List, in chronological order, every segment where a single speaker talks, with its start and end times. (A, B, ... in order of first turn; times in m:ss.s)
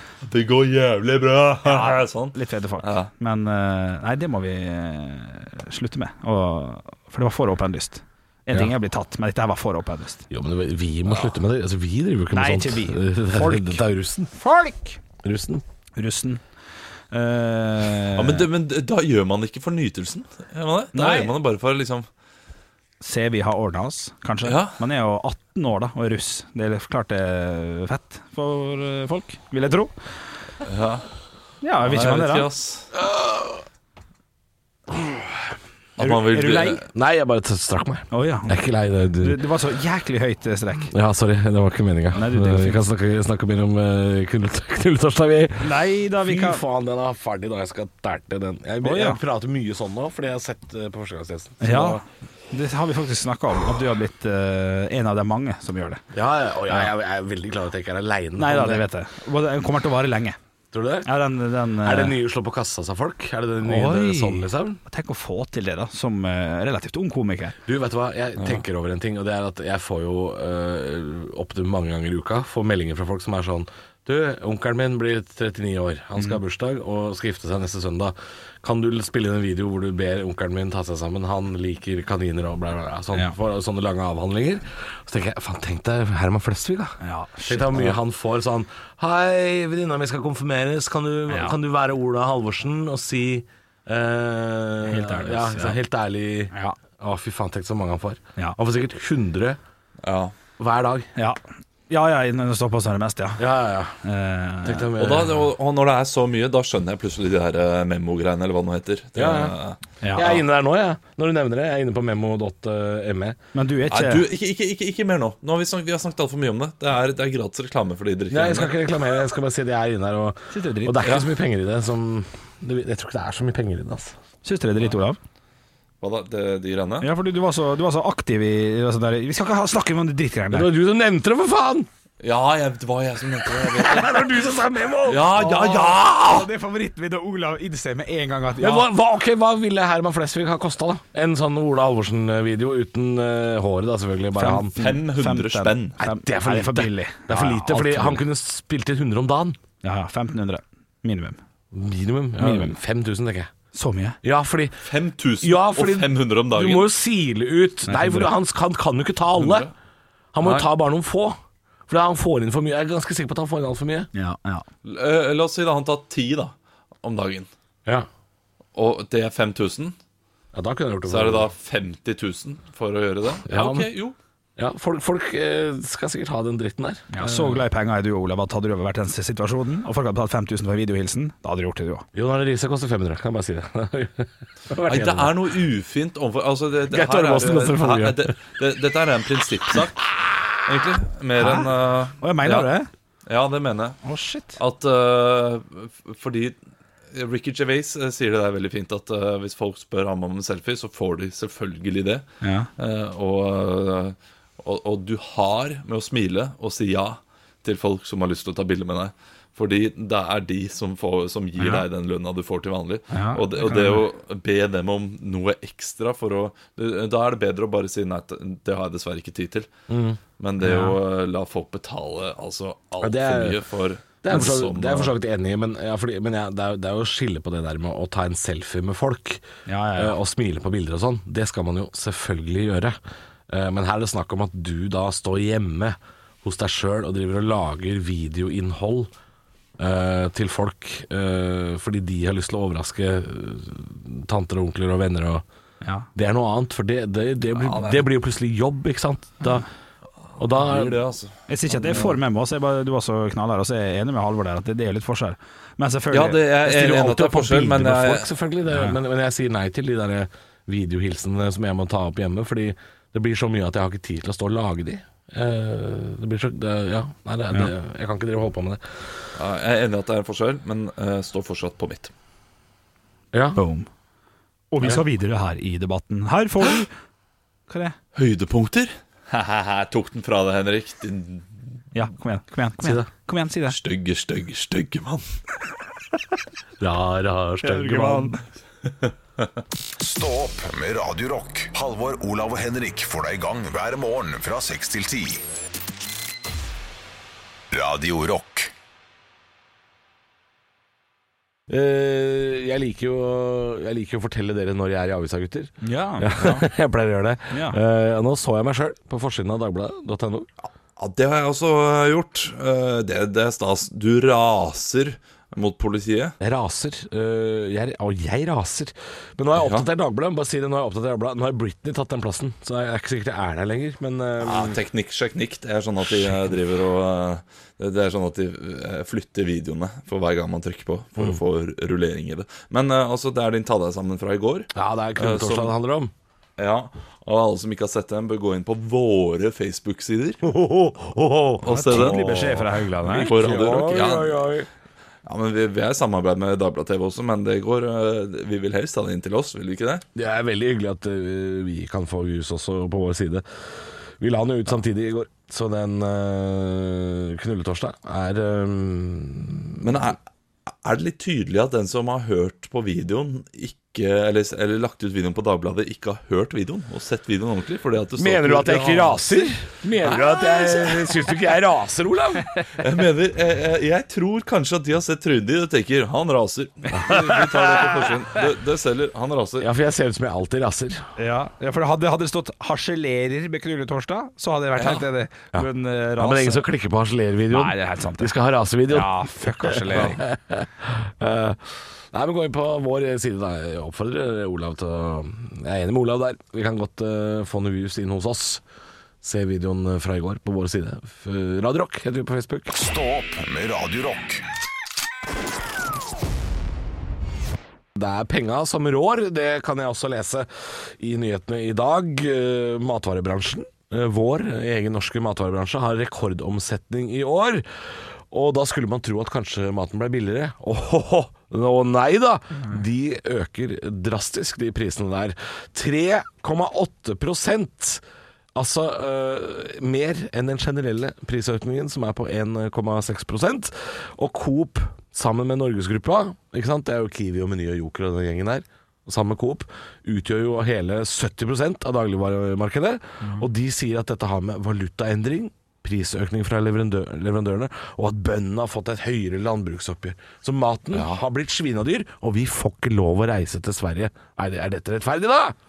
0:00.2-0:03.1 A
0:01.6-0:10.2 B
0:10.3-0:14.3 C
0:12.3-0:15.0 B
0:15.2-0:15.6 C
0:16.0-0:16.4 B
0:17.1-0:18.5 B
0:18.1-0:22.1 A
0:20.9-0:21.3 B
0:23.0-0:29.9 B
0:24.4-0:24.8 A
0:30.6-0:31.1 A
0:31.6-0:32.5 B
0:31.8-0:32.9 A
0:36.0-0:36.8 B
0:36.0-0:36.9 A
0:36.9-0:39.4 C
0:38.1-0:38.6 B
0:39.2-0:40.9 B
0:40.9-0:52.0 C
0:42.1-0:42.8 B
0:45.6-0:46.6 B
0:48.8-0:49.2 B
0:51.6-0:56.0 B
0:56.1-0:58.8 C
0:58.4-1:00.4 B
1:00.7-1:01.1 C
1:01.0-1:02.1 B
1:01.8-1:04.8 C
1:03.6-1:07.6 B
1:07.6-1:39.6 C
1:08.4-1:08.6 A
1:27.0-1:28.0 B
1:31.3-1:31.5 B
1:34.8-1:35.8 B
1:36.5-1:36.8 B
1:40.0-1:40.3 A
1:40.6-1:41.1 C
1:41.9-1:43.4 B
1:43.4-1:44.0 C
1:44.0-1:44.9 B
1:44.6-1:45.5 C
1:45.0-1:50.3 A
1:49.2-1:49.6 C
1:50.0-1:50.4 B
1:50.2-1:53.4 C
1:53.5-1:54.2 B
1:53.9-1:58.7 A
1:58.3-2:04.1 C
2:00.5-2:01.1 B
2:04.4-2:05.2 B
2:06.0-2:07.1 A
2:07.0-2:10.7 B
2:10.5-2:11.9 C
2:12.2-2:14.2 A
2:13.5-2:15.4 C
2:15.0-2:16.5 A
2:15.3-2:18.9 B
2:18.6-2:24.7 C
2:24.3-2:28.2 B
2:24.7-2:26.0 A
2:26.0-2:29.6 C
2:29.8-2:31.4 B
2:31.7-2:33.5 C
2:32.4-2:32.7 B
2:33.7-2:34.2 B
2:34.2-2:34.9 C
2:34.8-2:36.9 A
2:35.4-2:39.7 C
2:37.8-2:38.3 B
2:39.4-2:39.7 A
2:40.3-2:41.4 C
2:40.4-2:40.7 A
2:41.9-2:44.1 C
2:44.1-2:44.6 B
2:44.8-2:47.5 A
2:48.7-2:49.9 A
2:50.5-2:51.5 C
2:51.1-2:54.2 A
2:53.4-2:53.9 C
2:54.6-2:57.6 C
2:57.1-3:02.0 B
3:02.1-3:05.4 C
3:04.8-3:12.7 A
3:06.9-3:08.3 C
3:11.4-3:12.9 B
3:13.3-3:14.0 A
3:14.0-3:14.6 B
3:14.6-3:16.5 A
3:17.1-3:39.7 A
3:22.4-3:22.7 B
3:31.6-3:31.8 B
3:33.1-3:34.0 B
3:39.9-3:40.2 C
3:40.4-3:45.1 A
3:40.6-3:41.0 B
3:43.0-3:43.6 C
3:44.2-3:49.4 C
3:49.6-3:50.2 B
3:50.0-3:59.1 C
3:59.8-4:05.4 C
4:06.1-4:09.6 C
4:07.5-4:08.1 A
4:10.4-4:11.0 C
4:10.5-4:12.2 A
4:11.5-4:16.4 B
4:16.1-4:18.3 A
4:16.6-4:29.0 C
4:18.7-4:19.0 B
4:29.4-4:32.1 A
4:33.3-4:33.6 C
4:33.6-4:33.9 B
4:34.7-4:36.9 B
4:37.7-4:38.0 B
4:38.1-4:41.5 A
4:41.9-4:43.8 B
4:42.8-4:43.1 C
4:43.7-4:45.2 A
4:46.8-4:48.4 C
4:47.6-4:48.4 B
4:50.0-4:55.4 D
4:57.7-4:58.7 D
5:01.7-5:10.5 C
5:05.8-5:06.3 B
5:06.4-5:06.6 A
5:07.5-5:07.8 B
5:11.0-5:16.3 A
5:16.4-5:24.8 C
5:19.6-5:19.8 A
5:24.4-5:35.7 A
5:34.7-5:36.1 C
5:36.6-5:40.4 A
5:40.4-5:42.2 C
5:41.6-5:44.5 A
5:41.6-5:43.3 B
5:43.0-5:44.7 C
5:45.2-5:50.0 A
5:50.1-5:53.4 C
5:54.2-5:59.9 C
5:59.8-6:00.2 A
6:00.8-6:09.5 A
6:08.2-6:12.8 C
6:10.1-6:10.9 A
6:12.8-6:19.7 A
6:16.9-6:18.1 C
6:19.6-6:21.1 C
6:21.2-6:26.6 B
6:24.8-6:25.0 A
6:26.2-6:38.6 C
6:27.5-6:28.3 B
6:28.9-6:30.2 B
6:39.2-6:42.7 C
6:42.7-6:44.4 D
6:47.9-6:57.6 C
6:58.3-7:08.0 C
7:08.5-7:35.6 C